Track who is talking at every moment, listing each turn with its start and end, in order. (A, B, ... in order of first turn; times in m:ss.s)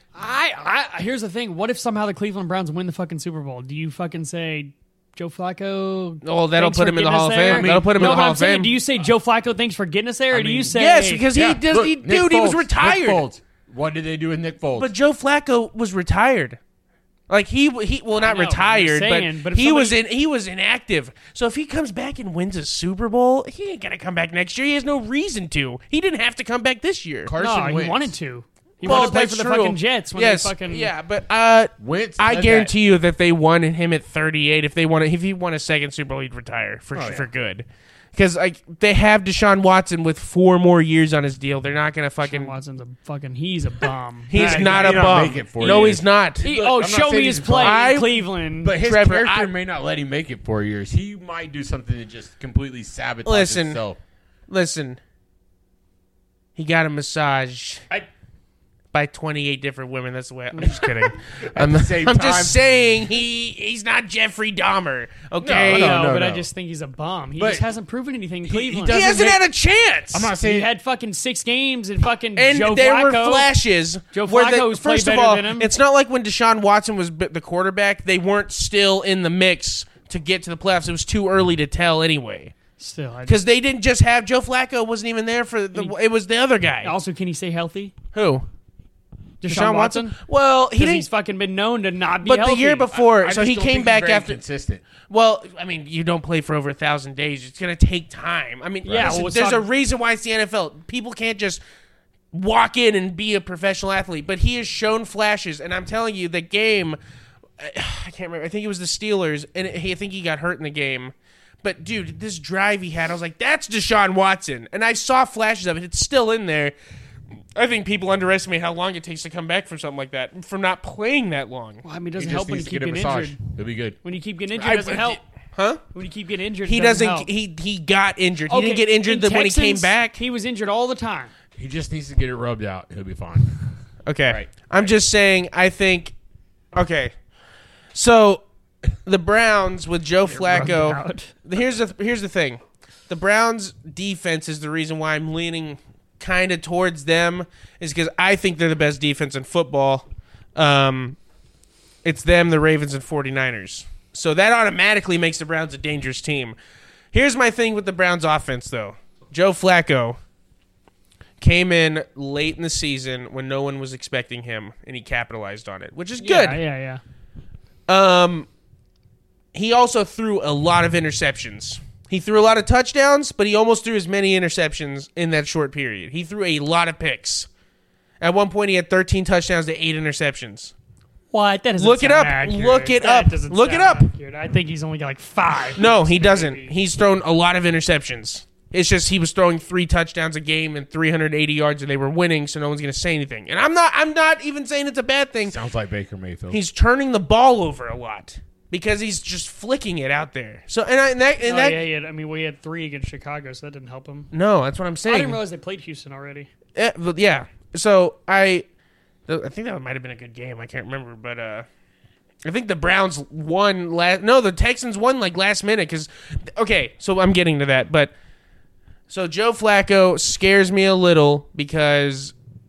0:00.2-0:11.2 A
0:06.2-0:08.8 B
0:07.5-0:08.3 C
0:10.3-0:10.7 C
0:10.7-0:13.2 B
0:11.3-0:14.9 C
0:14.8-0:16.6 B
0:17.3-0:27.3 B
0:18.2-0:20.0 A
0:27.2-0:28.1 C
0:27.4-0:30.9 A
0:28.8-0:42.5 B
0:31.8-0:32.7 C
0:36.9-0:37.2 C
0:42.2-0:48.8 A
0:44.3-0:46.4 B
0:44.4-0:48.1 C
0:47.6-0:48.2 B
0:48.6-0:54.0 C
0:48.8-0:49.5 B
0:53.2-0:53.8 B
0:54.5-0:55.0 B
0:56.6-0:57.8 B
0:58.9-1:06.0 B
1:00.5-1:00.8 A
1:00.8-1:02.6 C
1:05.4-1:06.5 C
1:05.7-1:09.2 A
1:07.4-1:07.6 C
1:08.4-1:09.4 C
1:08.9-1:10.3 B
1:10.1-1:10.7 C
1:10.4-1:13.5 A
1:12.4-1:22.5 B
1:14.1-1:15.7 A
1:22.8-1:23.4 A
1:23.3-1:26.9 B
1:26.8-1:27.9 A
1:28.1-1:28.5 B
1:29.4-1:30.2 A
1:29.4-1:31.1 B
1:30.8-1:32.9 A
1:32.2-1:34.4 B
1:32.9-1:34.8 C
1:35.1-1:41.6 B
1:38.8-1:39.2 C
1:38.9-1:39.7 A
1:42.3-1:47.0 B
1:47.6-1:56.8 B
1:57.6-2:01.8 B
2:01.8-2:03.4 A
2:02.2-2:04.0 C
2:04.0-2:05.2 A
2:04.5-2:05.2 C
2:05.6-2:05.8 B
2:05.9-2:07.3 A
2:06.6-2:10.2 B
2:08.5-2:11.3 A
2:11.6-2:13.7 C
2:14.1-2:16.1 B
2:14.3-2:15.0 C
2:16.7-2:17.2 B
2:17.9-2:31.2 B
2:20.3-2:21.4 A
2:32.0-2:36.6 B
2:37.1-2:40.2 B
2:41.4-2:46.6 B
2:46.2-2:47.0 A
2:47.9-2:48.5 B
2:49.5-2:57.5 B
2:58.2-3:00.8 B
3:01.3-3:06.7 A
3:01.8-3:04.1 B
3:05.8-3:15.6 B
3:15.5-3:16.6 C
3:16.5-3:21.8 B
3:21.4-3:24.3 A
3:24.3-3:25.4 B
3:25.1-3:26.5 A
3:26.8-3:28.7 B
3:29.3-3:31.7 B
3:32.4-3:38.1 B
3:39.1-3:42.4 B